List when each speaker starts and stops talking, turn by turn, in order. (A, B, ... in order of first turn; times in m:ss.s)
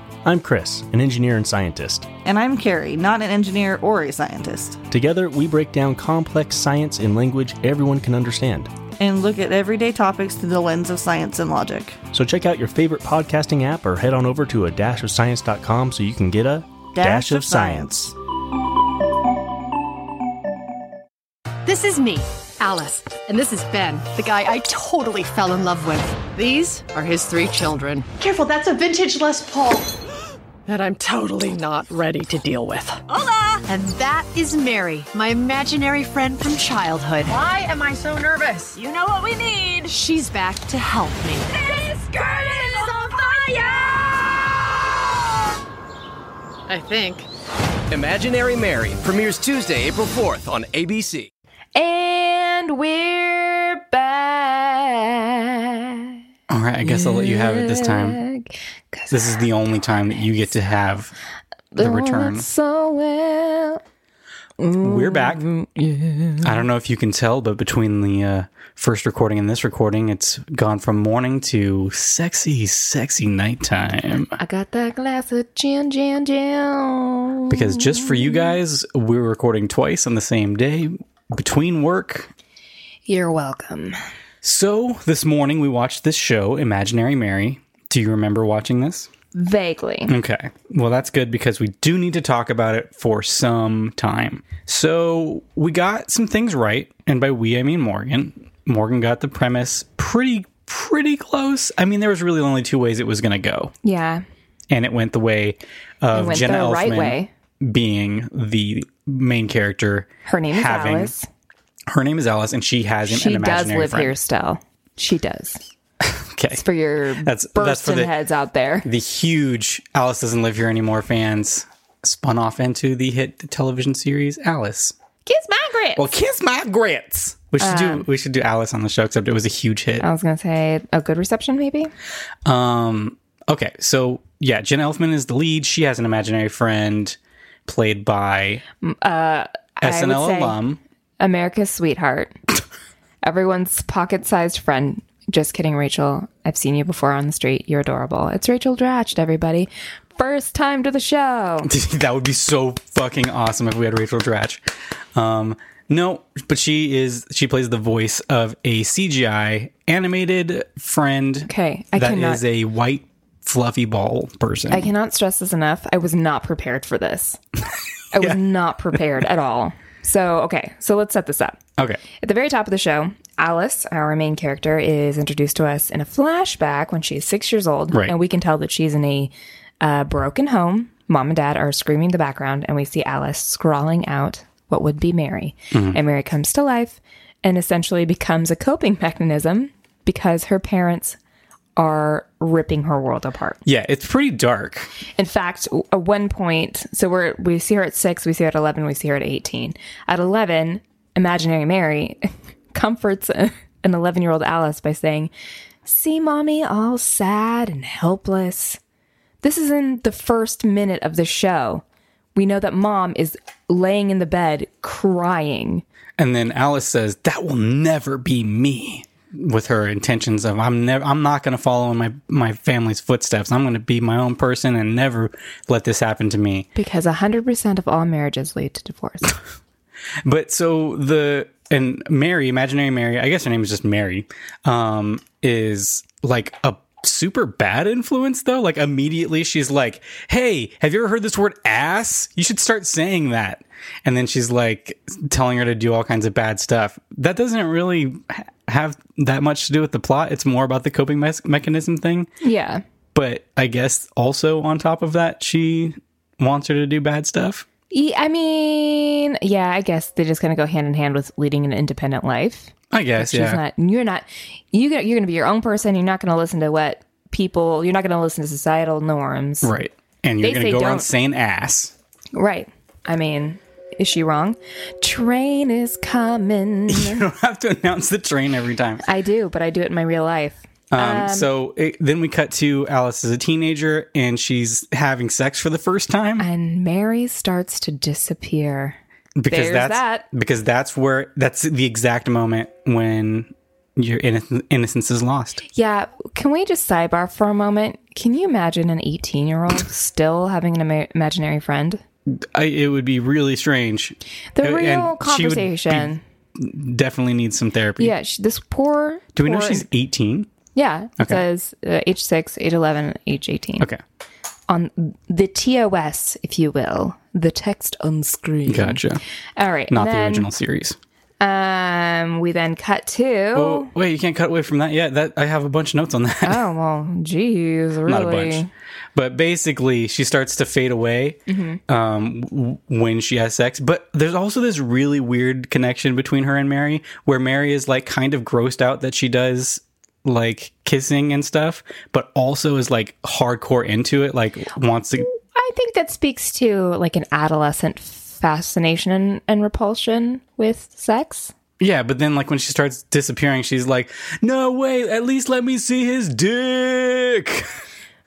0:00.2-0:02.1 A
0:02.2-0:04.8 B
0:04.9-0:08.7 A
0:09.0-0:12.0 B
0:12.1-0:18.1 A
0:16.9-0:18.1 B
0:21.6-0:28.1 C
0:28.2-0:29.9 D
0:30.7-0:37.4 C
0:37.2-0:38.8 D
0:38.8-0:44.5 C
0:42.6-0:43.4 D
0:46.7-0:47.3 C
0:47.9-0:51.3 E
0:51.7-0:56.1 F
0:56.5-0:58.2 G
0:56.8-0:59.4 F
0:59.1-1:01.1 G
1:01.7-1:03.8 F
1:01.8-1:02.4 G
1:04.6-1:06.5 F
1:04.8-1:05.4 G
1:06.4-1:14.4 G
1:14.4-1:18.5 F
1:17.5-1:22.3 G
1:23.1-1:24.0 F
1:24.4-1:29.1 G
1:29.3-1:30.1 F
1:30.1-1:43.7 G
1:43.8-1:44.2 F
1:44.7-1:51.1 G
1:46.1-1:47.3 F
1:50.2-1:51.3 F
1:51.9-1:54.2 G
1:53.1-1:55.6 F
1:56.0-1:56.6 G
1:56.5-1:58.9 F
1:57.2-1:58.1 G
1:58.8-2:04.9 G
2:05.2-2:06.1 F
2:06.0-2:10.0 G
2:07.6-2:08.0 F
2:10.0-2:11.9 F
2:12.4-2:18.6 G
2:18.8-2:20.6 F
2:19.8-2:20.8 G
2:21.2-2:22.4 F
2:23.2-2:31.7 F
2:31.6-2:34.6 G
2:35.1-2:44.9 G
2:41.5-2:42.4 F
2:44.7-2:47.4 F
2:48.1-2:51.6 F
2:52.2-3:11.2 F
3:05.7-3:06.0 G
3:11.8-3:13.6 F
3:13.6-3:14.9 G
3:15.2-3:25.3 F
3:25.8-3:28.8 F
3:29.4-3:31.8 F
3:32.3-3:35.8 F
3:36.2-3:46.7 G
3:46.7-3:49.4 F
3:50.2-4:12.3 G
4:12.4-4:12.8 F
4:13.1-4:17.6 G
4:17.9-4:29.7 F
4:22.9-4:23.6 G
4:29.6-4:31.9 G
4:30.4-4:31.1 F
4:32.3-4:37.2 F
4:36.9-4:39.0 G
4:39.0-4:41.5 F
4:40.9-4:46.5 G
4:46.4-4:49.0 F
4:49.4-4:55.6 G
4:49.5-4:50.2 F
4:55.7-5:02.0 F
5:02.3-5:08.1 G
5:04.6-5:06.2 F
5:08.0-5:09.9 F
5:09.3-5:10.5 G
5:10.7-5:13.9 F
5:14.7-5:19.0 F
5:18.7-5:19.2 G
5:19.6-5:20.5 F
5:19.9-5:21.0 G
5:21.4-5:23.9 F
5:23.5-5:26.6 G
5:26.4-5:28.7 F
5:28.0-5:45.3 G
5:31.5-5:31.8 F
5:45.3-5:51.5 F
5:51.8-5:57.7 G